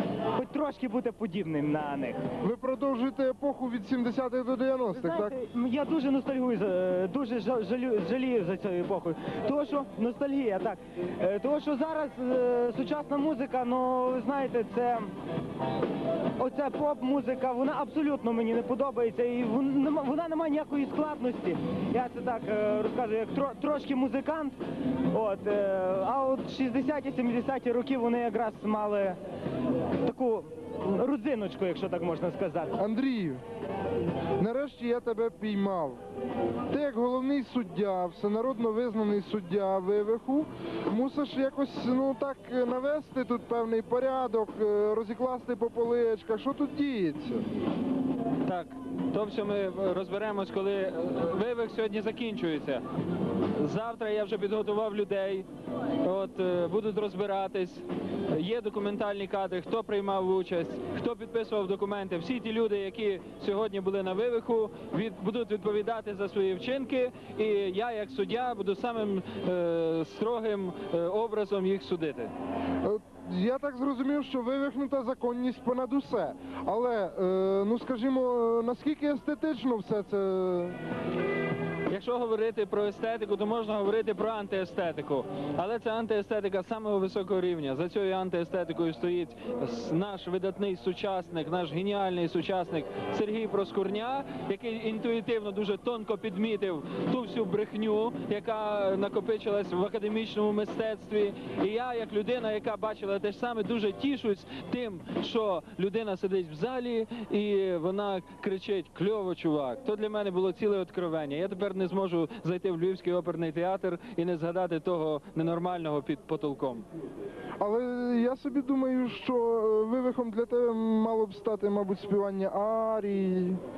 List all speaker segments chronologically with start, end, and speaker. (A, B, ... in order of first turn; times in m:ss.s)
0:00.4-0:02.2 A
0:02.4-0:05.4 B
0:04.9-0:15.1 A
0:16.4-0:24.6 A
0:25.1-0:29.2 A
0:30.1-0:32.7 A
0:32.8-0:33.4 B
0:34.4-0:36.0 B
0:36.7-0:47.4 B
0:48.4-0:52.8 C
0:53.6-0:55.4 C
0:56.0-1:12.3 C
1:12.8-1:20.8 B
1:21.9-1:56.9 C
1:57.6-2:03.6 B